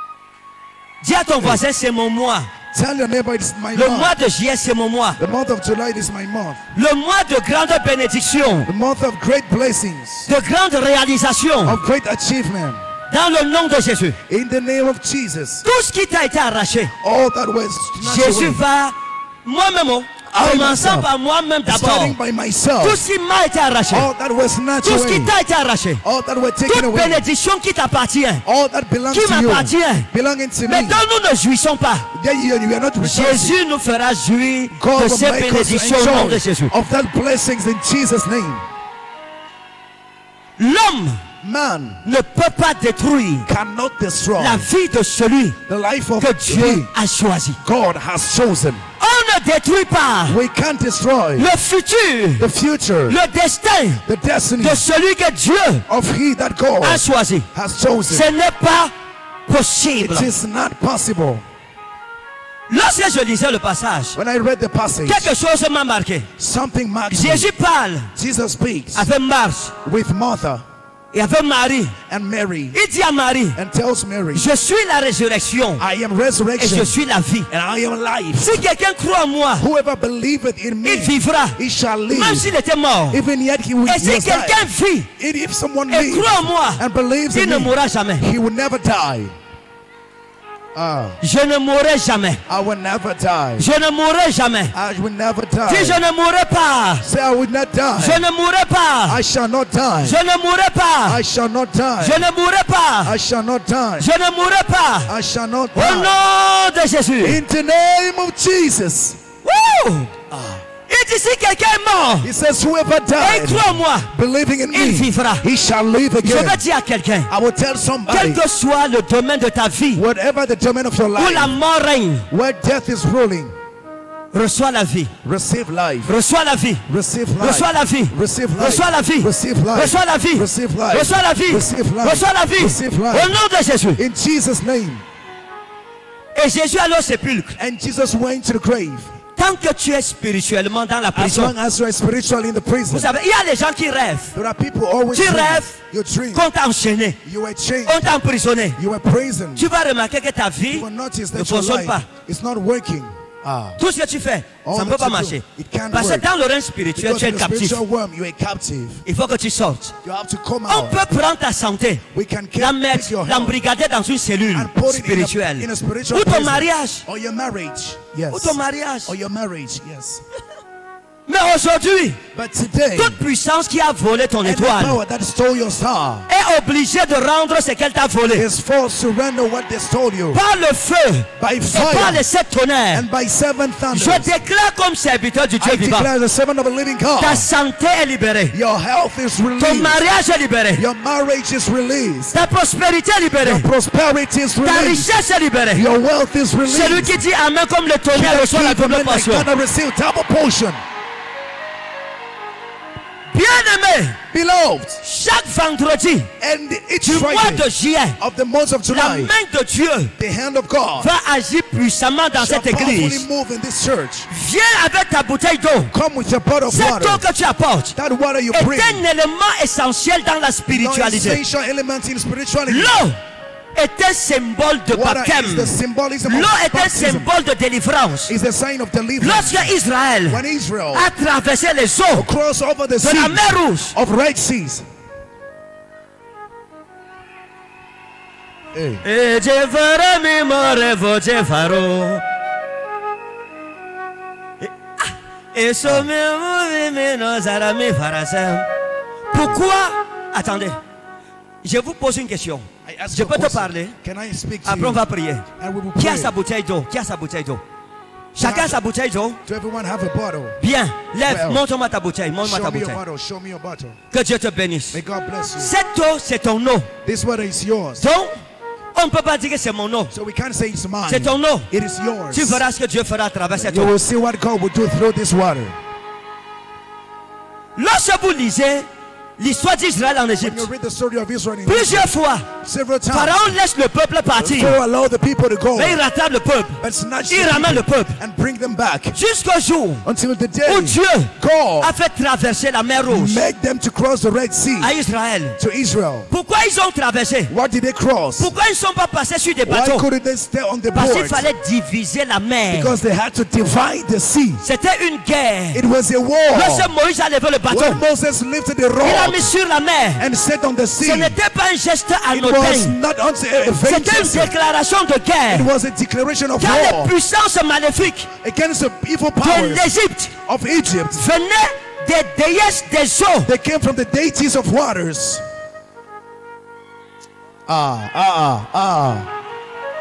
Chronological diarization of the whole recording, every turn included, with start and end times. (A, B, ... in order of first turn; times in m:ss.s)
0:01.0-0:02.5 A
0:02.7-0:04.2 B
0:03.7-0:05.2 A
0:05.2-0:06.6 B
0:06.7-0:08.7 A
0:08.6-0:10.3 B
0:10.3-0:11.8 A
0:11.6-0:12.8 B
0:13.1-0:14.2 A
0:14.3-0:15.6 B
0:15.6-0:16.9 A
0:17.0-0:18.6 B
0:18.0-0:22.2 A
0:20.3-0:21.1 B
0:21.6-0:23.0 B
0:22.8-0:24.1 A
0:23.9-0:25.4 B
0:24.8-0:26.0 A
0:26.0-0:27.2 B
0:26.7-0:28.4 A
0:28.4-0:31.0 B
0:29.1-0:30.1 A
0:30.7-0:32.1 A
0:32.1-0:33.6 B
0:33.0-0:36.7 A
0:34.7-0:38.6 B
0:40.6-0:41.2 A
0:41.4-0:42.0 B
0:42.0-0:43.5 A
0:43.4-0:44.7 B
0:44.4-0:45.6 A
0:45.7-0:46.9 B
0:46.2-0:47.6 A
0:47.6-0:48.8 B
0:49.0-0:50.4 A
0:50.3-0:51.5 B
0:51.4-0:52.4 A
0:52.4-0:53.2 B
0:53.1-0:54.0 A
0:54.0-0:54.8 B
0:54.6-0:55.8 A
0:55.9-0:58.3 B
0:56.8-0:57.5 A
0:58.1-0:58.9 A
0:59.5-1:00.3 A
1:00.0-1:01.4 B
1:02.7-1:04.2 A
1:04.1-1:05.3 B
1:05.0-1:06.3 A
1:06.4-1:07.5 B
1:07.1-1:08.1 A
1:08.1-1:09.1 B
1:08.9-1:09.7 A
1:09.8-1:10.6 B
1:11.1-1:11.9 A
1:12.1-1:12.8 B
1:12.7-1:13.6 A
1:13.5-1:14.5 B
1:14.3-1:15.8 A
1:15.8-1:17.0 B
1:16.6-1:17.5 A
1:17.5-1:18.6 B
1:18.4-1:19.6 A
1:19.6-1:22.6 B
1:20.8-1:21.6 A
1:22.1-1:23.2 A
1:23.1-1:29.3 B
1:23.8-1:25.1 A
1:25.9-1:28.2 A
1:30.7-1:31.2 B
1:31.2-1:32.4 A
1:32.5-1:33.7 B
1:33.6-1:34.7 A
1:34.7-1:36.0 B
1:35.6-1:37.0 A
1:37.0-1:38.2 B
1:38.0-1:39.2 A
1:39.1-1:40.2 B
1:40.0-1:41.2 A
1:41.0-1:42.2 B
1:42.0-1:43.2 A
1:43.0-1:44.1 B
1:44.0-1:45.1 A
1:45.0-1:46.1 B
1:45.7-1:47.4 A
1:47.2-1:49.2 B
1:49.4-1:50.1 A
1:50.3-1:50.6 B
1:50.9-1:52.3 A
1:52.2-1:56.6 B
1:53.2-1:54.1 A
1:54.7-1:55.4 A
1:56.2-1:57.3 A
1:57.3-1:58.4 B
1:58.1-2:00.0 A
1:59.9-2:01.6 B
2:01.2-2:02.3 A
2:02.3-2:03.5 B
2:04.3-2:05.1 A
2:05.2-2:06.1 B
2:06.0-2:06.8 A
2:06.9-2:13.4 B
2:07.4-2:14.0 A
2:13.9-2:15.0 B
2:16.3-2:17.6 A
2:17.6-2:19.1 B
2:19.4-2:21.5 A
2:21.1-2:23.1 B
2:22.9-2:24.3 A
2:24.3-2:26.5 B
2:25.1-2:25.8 A
2:26.3-2:27.2 A
2:27.2-2:28.2 B
2:27.8-2:28.8 A
2:28.7-2:29.7 B
2:29.6-2:32.1 A
2:30.7-2:33.8 B
2:33.8-2:37.8 A
2:34.6-2:36.3 B
2:36.9-2:39.0 B
2:39.0-2:39.9 A
2:40.0-2:41.0 B
2:40.7-2:42.0 A
2:42.1-2:43.6 B
2:42.6-2:47.0 A
2:44.5-2:50.2 B
2:48.3-2:49.1 A
2:51.3-2:52.2 A
2:52.3-2:53.2 B
2:53.0-2:55.0 A
2:54.4-2:56.3 B
2:56.3-2:58.5 A
2:58.3-3:00.4 B
3:00.3-3:03.0 A
3:01.4-3:02.2 B
3:02.9-3:04.4 B
3:03.9-3:06.1 A
3:05.6-3:07.5 B
3:07.2-3:08.6 A
3:08.5-3:10.0 B
3:09.6-3:10.8 A
3:10.7-3:12.4 B
3:12.3-3:13.7 A
3:13.4-3:15.2 B
3:14.6-3:15.8 A
3:15.7-3:17.2 B
3:16.6-3:19.5 A
3:18.1-3:20.8 B
3:23.3-3:24.2 A
3:24.3-3:25.0 B
3:25.0-3:26.3 A
3:26.4-3:29.3 B
3:27.0-3:28.2 A
3:28.9-3:30.1 A
3:30.2-3:31.1 B
3:31.0-3:33.2 A
3:32.4-3:34.3 B
3:34.3-3:35.9 A
3:35.9-3:37.2 B
3:36.7-3:37.9 A
3:37.9-3:39.0 B
3:38.5-3:41.4 A
3:40.7-3:43.0 B
3:42.7-3:43.2 A
3:43.7-3:45.7 A
3:44.9-3:47.3 B
3:46.3-3:48.3 A
3:48.3-3:51.1 B
3:49.2-3:52.3 A
3:52.1-3:54.9 B
3:53.0-3:54.0 A
3:58.7-3:59.0 B
3:59.0-4:02.2 A
4:04.6-4:08.7 A
4:09.3-4:09.6 B
4:09.3-4:10.8 A
4:11.6-4:13.9 A
4:12.8-4:16.3 B
4:14.6-4:17.6 A
4:18.3-4:19.4 A
4:18.4-4:18.8 B
4:19.4-4:20.6 B
4:20.6-4:23.0 A
4:21.2-4:21.6 B
4:22.4-4:24.0 B
4:24.1-4:25.0 A
4:24.9-4:25.7 B
4:25.6-4:26.9 A
4:27.0-4:28.0 B
4:28.0-4:28.4 A
4:28.9-4:30.1 A
4:30.1-4:32.6 B
4:31.1-4:31.7 A
4:32.3-4:33.9 A
4:33.5-4:35.8 B
4:37.8-4:40.7 A
4:40.4-4:43.6 B
4:41.6-4:42.5 A
4:43.1-4:44.8 A
4:44.4-4:46.0 B
4:45.8-4:48.2 A
4:46.8-4:49.2 B
4:49.1-4:50.0 A
4:50.0-4:51.9 B
4:50.6-4:53.4 A
4:53.1-4:54.9 B
4:54.8-4:55.6 A
4:55.6-4:56.3 B
4:56.3-4:57.5 A
4:57.5-4:58.5 B
4:58.4-5:00.1 A
4:59.6-5:01.5 B
5:00.9-5:02.9 A
5:02.7-5:04.6 B
5:04.6-5:05.8 A
5:05.7-5:06.9 B
5:06.5-5:08.0 A
5:07.7-5:09.5 B
5:09.0-5:10.2 A
5:10.2-5:11.4 B
5:11.0-5:13.0 A
5:12.3-5:14.5 B
5:13.8-5:15.7 A
5:15.5-5:17.1 B
5:16.6-5:18.3 A
5:18.4-5:21.2 B
5:19.4-5:20.3 A
5:21.2-5:23.5 A
5:23.4-5:25.4 B
5:27.7-5:29.3 B